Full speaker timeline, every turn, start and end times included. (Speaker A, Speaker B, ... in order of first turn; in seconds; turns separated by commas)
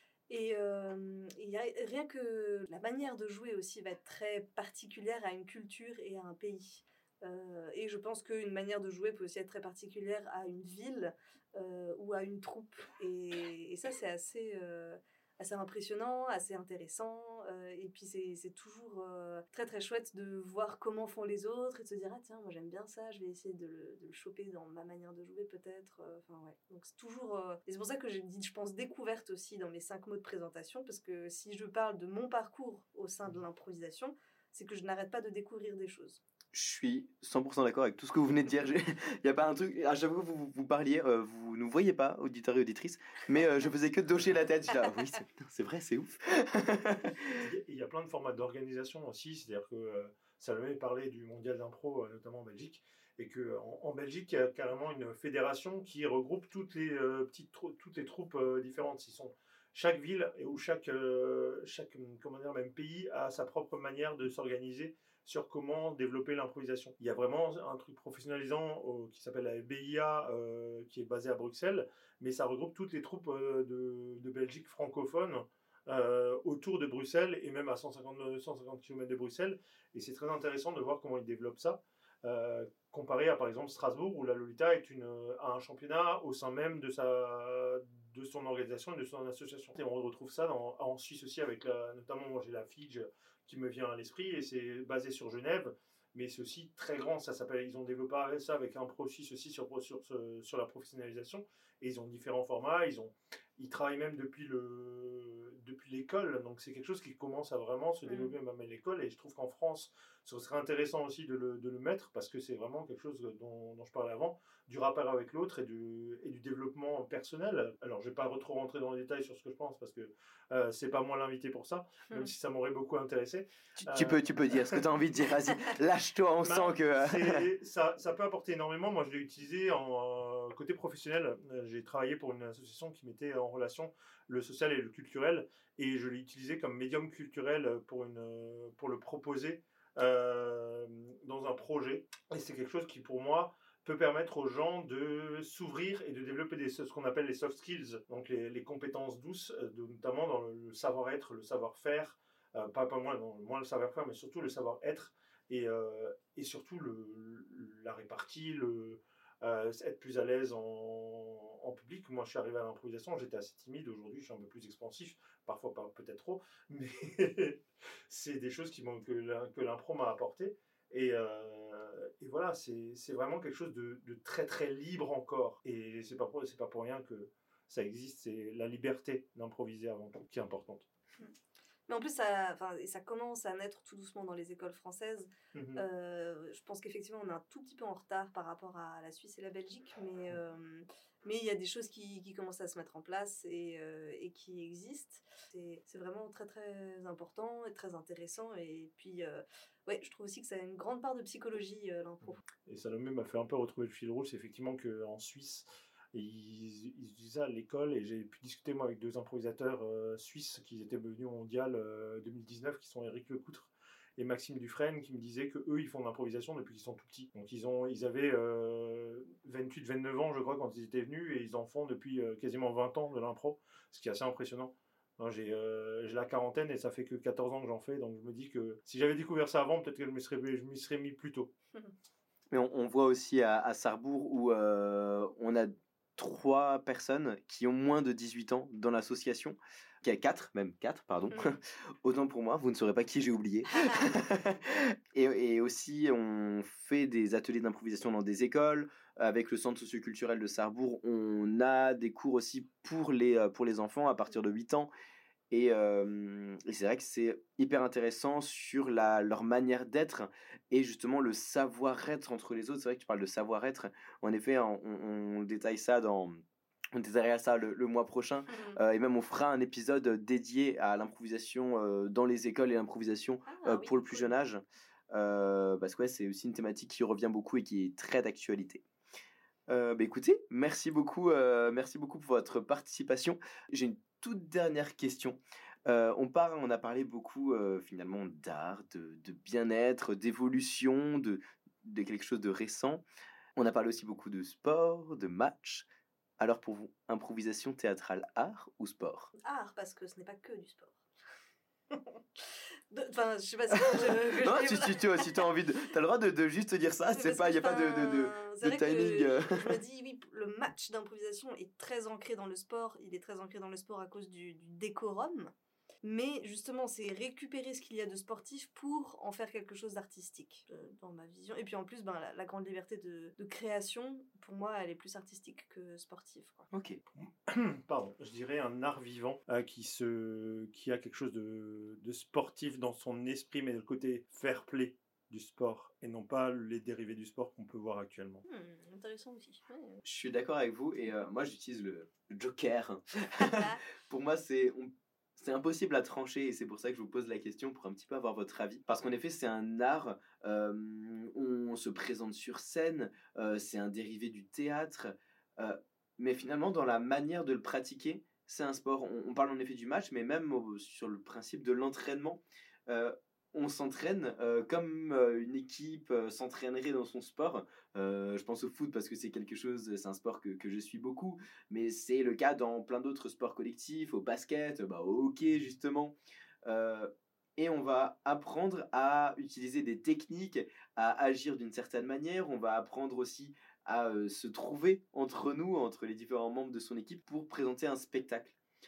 Speaker A: 0.3-36.2, Speaker B: 36.5-47.4, Speaker C: 47.4-124.8, Speaker A: 108.1-108.3, Speaker B: 123.8-127.4, Speaker C: 126.4-180.8, Speaker A: 181.9-202.4, Speaker C: 185.5-185.8, Speaker C: 202.7-231.5, Speaker B: 232.5-254.9, Speaker B: 255.5-266.4, Speaker B: 266.9-278.8, Speaker A: 268.5-268.8, Speaker A: 273.5-274.3, Speaker B: 279.7-293.0, Speaker B: 293.6-295.9, Speaker B: 296.4-299.3, Speaker A: 299.4-301.0, Speaker A: 301.9-305.5, Speaker B: 303.7-309.8, Speaker A: 307.0-326.7, Speaker B: 326.7-327.0, Speaker C: 327.2-338.4, Speaker A: 338.5-340.0, Speaker B: 340.0-376.1, Speaker A: 343.5-343.8, Speaker B: 376.6-388.5